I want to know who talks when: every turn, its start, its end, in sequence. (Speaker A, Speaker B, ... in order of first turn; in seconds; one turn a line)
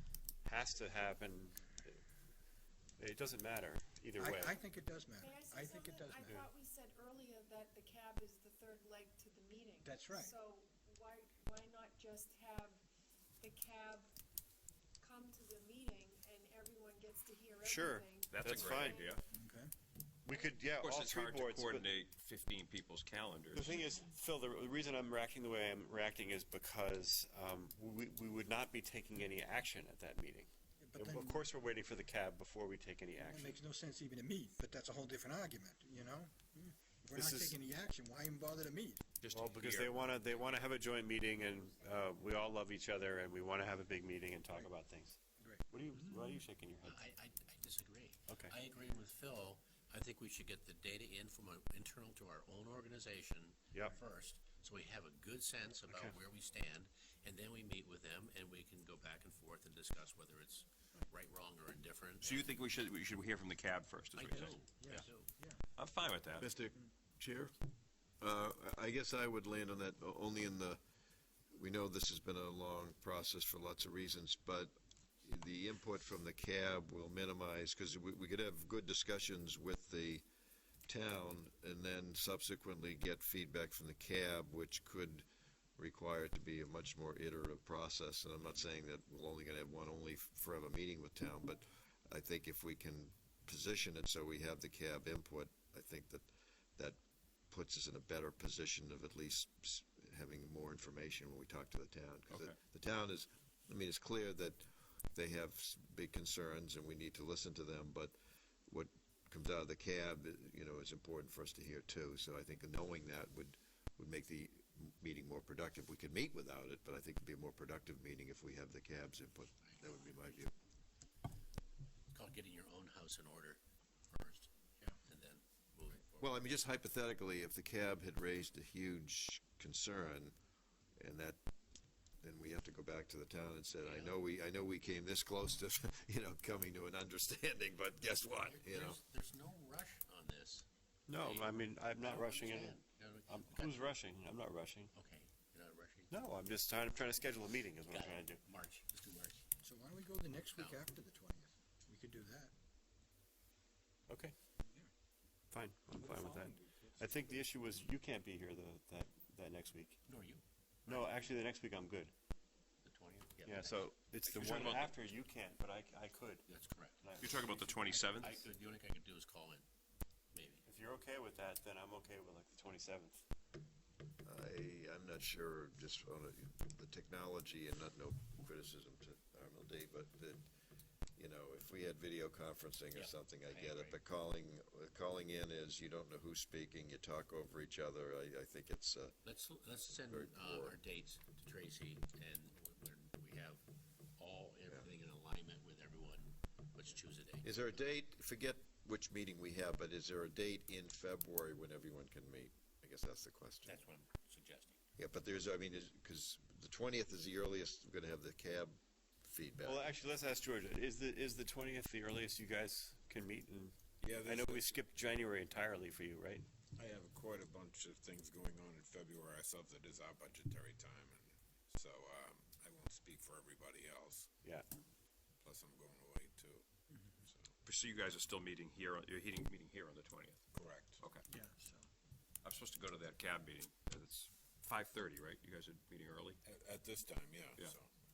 Speaker A: 0.4-2.0
Speaker A: 3.0-4.6
Speaker B: 4.2-6.4
Speaker C: 5.2-12.8
Speaker B: 9.8-10.3
Speaker C: 13.4-14.1
Speaker C: 15.0-19.2
Speaker A: 17.6-19.0
Speaker D: 18.3-19.2
Speaker B: 19.3-19.7
Speaker A: 20.2-21.9
Speaker D: 20.7-23.8
Speaker A: 23.5-33.6
Speaker B: 30.8-31.4
Speaker B: 33.2-39.0
Speaker A: 37.1-37.5
Speaker D: 39.2-40.0
Speaker A: 39.3-47.0
Speaker E: 46.8-62.5
Speaker A: 48.3-48.5
Speaker A: 55.9-56.1
Speaker D: 62.2-65.1
Speaker E: 64.1-65.3
Speaker B: 64.7-65.6
Speaker D: 65.8-66.6
Speaker F: 66.4-67.5
Speaker F: 68.2-70.8
Speaker F: 71.5-80.2
Speaker F: 80.9-85.2
Speaker F: 85.8-97.0
Speaker F: 97.5-108.1
Speaker D: 102.3-102.5
Speaker F: 108.7-120.5
Speaker E: 122.1-126.4
Speaker F: 126.2-130.3
Speaker F: 131.0-131.4
Speaker F: 132.2-139.0
Speaker E: 133.8-134.2
Speaker E: 138.4-143.9
Speaker A: 141.1-144.9
Speaker E: 144.9-146.1
Speaker A: 146.1-148.4
Speaker E: 147.9-149.4
Speaker B: 149.6-152.5
Speaker E: 150.5-150.9
Speaker A: 154.1-154.3
Speaker A: 155.5-160.0
Speaker B: 155.9-157.1
Speaker E: 160.1-161.1
Speaker A: 160.8-162.1
Speaker E: 162.8-163.8
Speaker A: 163.4-166.5
Speaker D: 164.2-164.9
Speaker E: 166.5-169.7
Speaker A: 167.0-168.0
Speaker D: 167.2-168.4
Speaker E: 170.3-170.6
Speaker A: 170.6-173.2
Speaker F: 174.2-180.4
Speaker F: 181.2-189.2
Speaker E: 182.9-184.0
Speaker E: 189.2-193.6
Speaker F: 190.1-190.8
Speaker E: 194.2-197.9
Speaker F: 197.4-203.8
Speaker E: 203.7-204.8
Speaker F: 205.0-209.8
Speaker A: 209.6-216.4
Speaker G: 214.0-214.8
Speaker G: 216.7-224.3
Speaker G: 225.4-227.5
Speaker B: 226.9-227.2
Speaker D: 227.6-230.4
Speaker G: 230.5-231.0
Speaker B: 231.3-231.8
Speaker D: 232.4-236.4
Speaker G: 236.4-237.9